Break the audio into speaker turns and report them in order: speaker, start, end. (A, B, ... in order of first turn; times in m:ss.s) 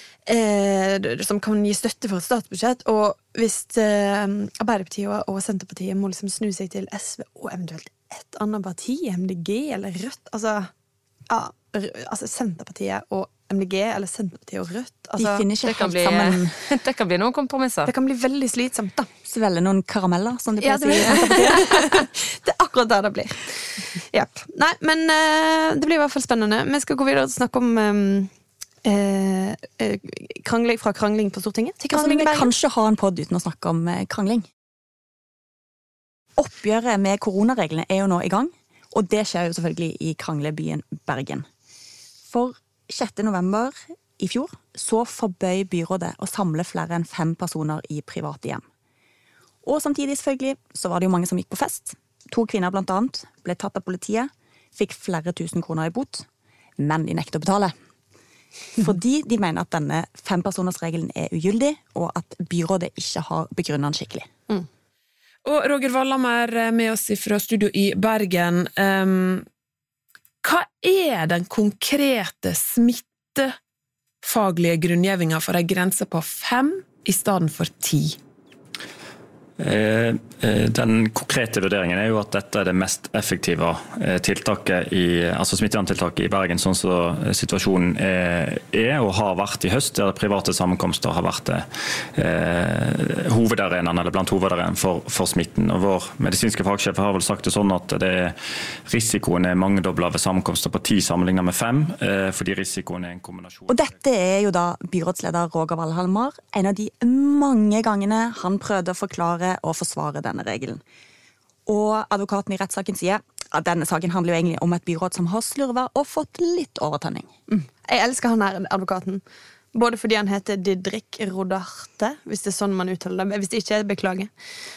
0:00.3-0:10.7 A
0:11.3-0:15.5 A
0:15.2-0:16.6 B
0:15.6-0:17.9 C
0:17.9-0:19.1 A
0:19.3-0:22.0 B
0:20.6-0:28.3 A
0:21.1-0:21.9 C
0:28.8-0:32.5 A
0:31.9-0:34.5 B
0:36.4-0:41.5 B
0:42.3-0:48.6 B
0:49.6-0:56.3 B
0:56.8-0:57.7 B
0:58.8-1:04.3 B
1:05.4-1:09.5 D
1:10.4-1:13.6 D
1:14.2-1:18.2 D
1:19.6-1:43.8 E
1:43.7-1:50.8 B
1:51.7-1:57.7 B
1:57.9-1:59.2 A
1:59.7-2:04.3 A